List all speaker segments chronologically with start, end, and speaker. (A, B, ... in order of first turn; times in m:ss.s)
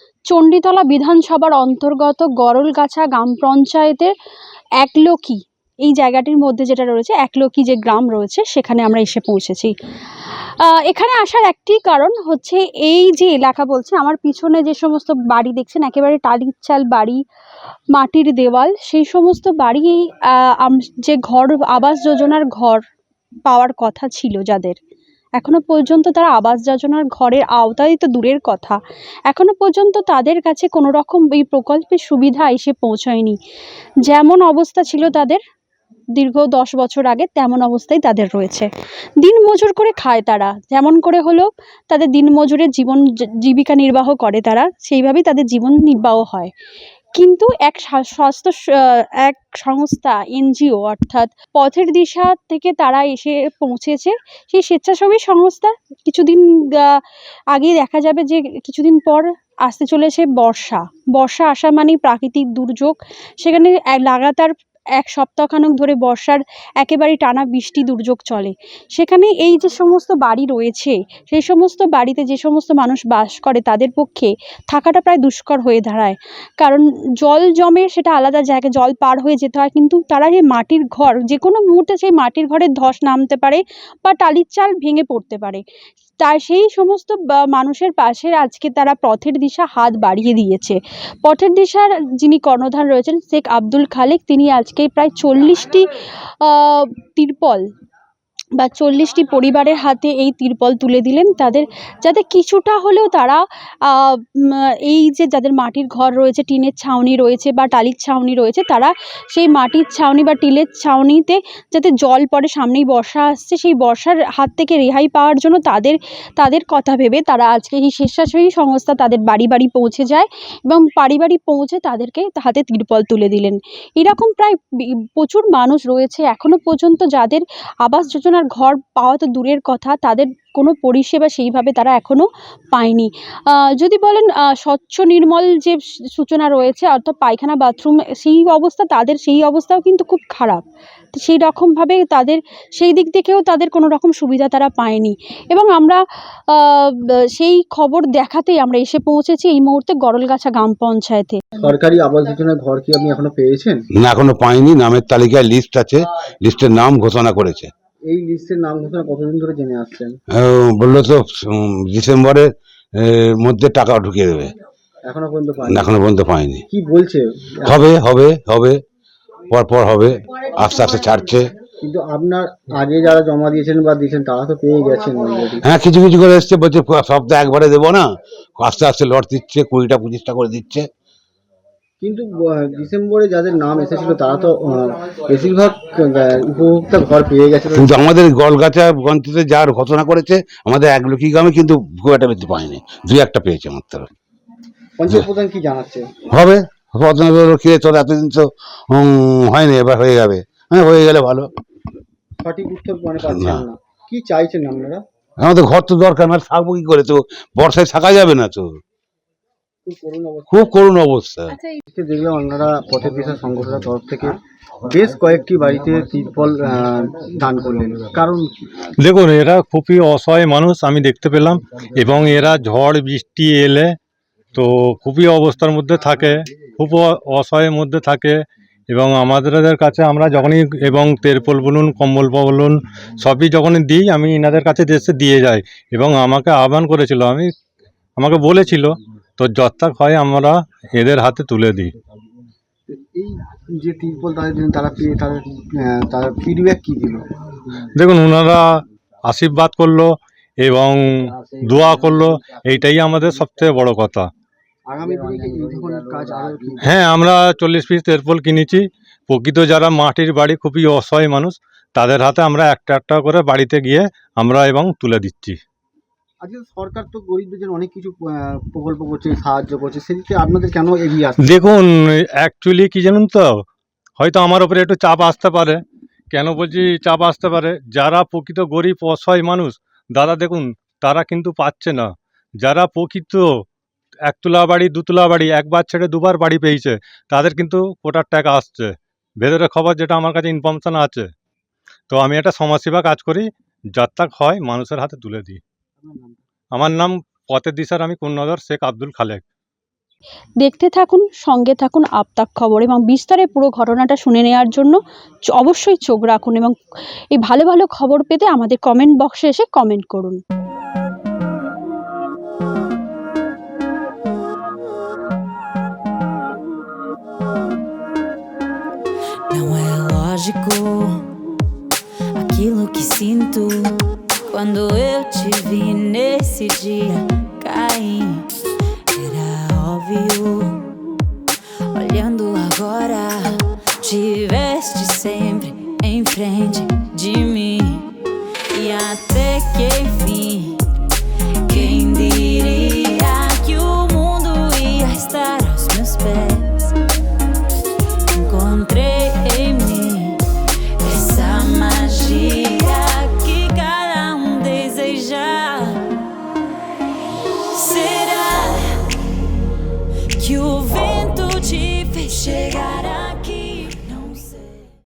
0:00.3-0:04.1 A
0:04.8-0:09.7 A
0:10.6-0:17.2 A
0:17.9-0:22.8 A
0:23.4-0:24.8 A
0:25.4-0:28.8 A
0:29.3-0:33.4 A
0:34.0-0:35.4 A
0:36.2-0:38.7 A
0:39.2-0:46.5 A
0:47.2-0:57.0 A
0:57.5-1:25.6 A
1:26.2-1:37.6 A
1:38.6-2:04.6 A
2:05.2-2:20.6 A
2:21.1-2:31.4 A
2:31.6-2:33.8 B
2:34.0-2:37.7 C
2:38.1-2:40.1 B
2:40.3-2:44.5 C
2:45.1-2:46.0 B
2:45.6-2:46.6 C
2:46.7-2:47.8 B
2:47.6-2:48.8 C
2:49.5-2:51.5 C
2:51.8-2:55.6 B
2:55.6-2:58.1 C
2:58.6-3:00.9 C
3:02.0-3:07.9 B
3:07.7-3:14.1 C
3:15.0-3:16.1 B
3:16.3-3:21.5 C
3:22.4-3:25.0 B
3:23.2-3:23.6 C
3:25.4-3:28.7 C
3:29.8-3:30.7 B
3:30.5-3:31.6 C
3:31.9-3:38.5 B
3:39.0-3:44.0 D
3:44.5-3:48.4 D
3:48.9-3:57.5 D
3:58.2-4:01.9 D
4:02.9-4:07.2 B
4:08.0-4:08.6 D
4:09.3-4:14.3 D
4:14.9-4:16.8 B
4:16.8-4:25.6 D
4:26.4-4:31.5 B
4:31.4-4:33.6 D
4:34.2-4:43.6 D
4:44.3-4:51.3 D
4:52.1-4:55.6 D
4:56.0-4:56.4 B
4:56.7-4:59.4 D
5:00.6-5:06.8 A
5:07.3-5:10.4 A
5:19.5-5:21.2 E
5:22.4-5:24.0 E
5:24.5-5:28.4 E
5:29.1-5:30.8 E
5:31.9-5:38.0 E
5:38.7-5:40.8 E
5:41.7-5:46.9 E
5:48.4-5:50.4 E
5:51.0-5:56.0 E
5:57.8-5:58.8 E
6:00.4-6:04.8 E